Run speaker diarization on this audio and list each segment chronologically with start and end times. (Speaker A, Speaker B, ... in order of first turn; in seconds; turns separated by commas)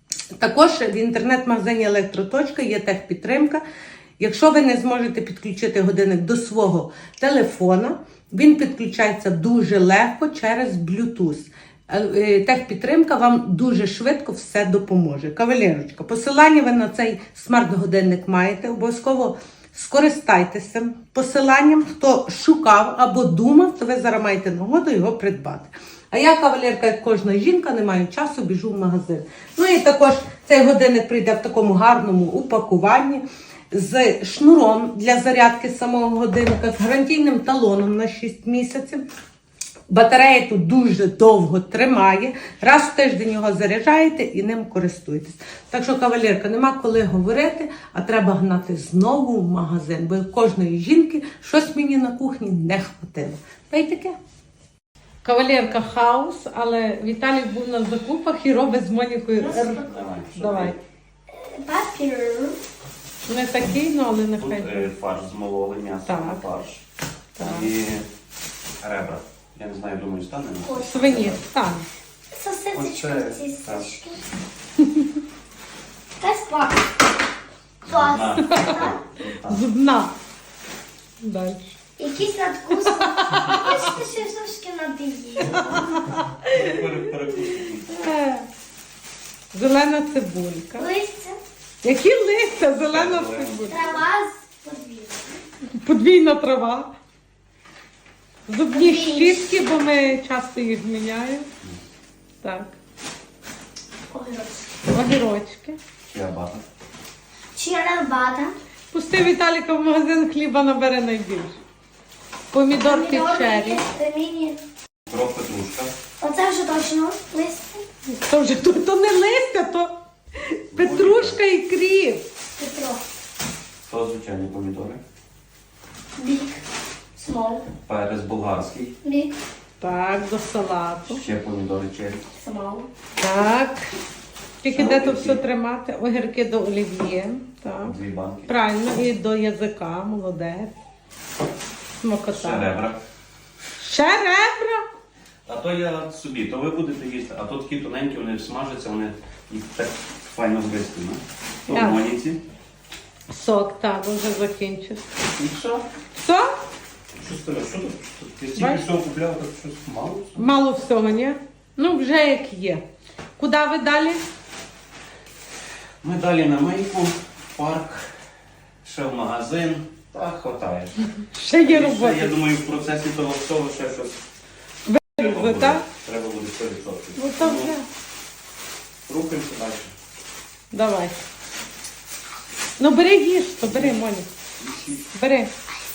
Speaker A: 0.4-3.6, Speaker A: 4.2-39.0, Speaker A: 39.9-54.2, Speaker A: 55.2-60.8, Speaker B: 59.4-60.0, Speaker C: 59.8-60.8, Speaker B: 61.3-62.6, Speaker A: 63.2-64.9, Speaker C: 64.4-66.8, Speaker A: 66.0-66.4, Speaker A: 67.4-67.7, Speaker C: 67.4-68.1, Speaker C: 68.8-71.4, Speaker B: 70.6-71.2, Speaker A: 70.8-71.8, Speaker B: 72.3-74.2, Speaker C: 72.7-73.9, Speaker A: 74.8-75.0, Speaker B: 76.2-76.8, Speaker B: 77.8-79.0, Speaker C: 77.9-79.7, Speaker A: 79.5-80.1, Speaker A: 81.2-81.8, Speaker B: 82.0-86.0, Speaker A: 82.8-83.7, Speaker A: 85.4-86.8, Speaker C: 86.5-88.0, Speaker A: 87.3-88.5, Speaker A: 89.5-90.9, Speaker B: 90.8-91.4, Speaker A: 91.8-93.8, Speaker C: 92.9-94.0, Speaker B: 93.7-95.4, Speaker A: 95.8-96.9, Speaker A: 98.5-101.5, Speaker B: 98.7-99.4, Speaker A: 102.4-102.7, Speaker B: 104.1-104.7, Speaker A: 104.9-105.8, Speaker C: 106.0-106.6, Speaker B: 107.5-108.5, Speaker A: 108.9-111.6, Speaker A: 112.5-113.8, Speaker B: 112.8-114.6, Speaker C: 115.1-115.9, Speaker B: 116.2-117.8, Speaker A: 118.1-119.9, Speaker A: 120.5-122.2, Speaker C: 120.7-121.4, Speaker B: 122.6-123.0, Speaker C: 123.9-125.0, Speaker B: 126.2-126.6, Speaker B: 127.2-127.7, Speaker C: 127.9-128.9, Speaker B: 129.0-129.3, Speaker A: 129.8-131.2, Speaker C: 131.1-132.2, Speaker B: 132.4-132.9, Speaker A: 133.2-133.9, Speaker A: 134.6-140.7, Speaker C: 134.7-135.4, Speaker C: 137.8-138.5, Speaker A: 142.0-142.8, Speaker C: 142.3-143.0, Speaker A: 143.8-144.8, Speaker C: 145.5-152.4, Speaker A: 151.7-152.1, Speaker A: 153.3-155.1, Speaker C: 155.3-155.8, Speaker A: 156.1-156.5, Speaker C: 157.2-160.4, Speaker A: 158.6-158.9, Speaker A: 160.3-162.8, Speaker A: 163.4-164.2, Speaker C: 166.0-168.1, Speaker C: 168.8-171.0, Speaker A: 171.3-172.4, Speaker C: 171.6-174.2, Speaker A: 174.9-175.9, Speaker C: 175.1-177.7, Speaker A: 177.2-177.9, Speaker C: 179.1-179.9, Speaker A: 180.7-181.2, Speaker A: 182.8-184.3, Speaker C: 183.6-184.0, Speaker C: 184.6-185.1, Speaker A: 185.1-185.5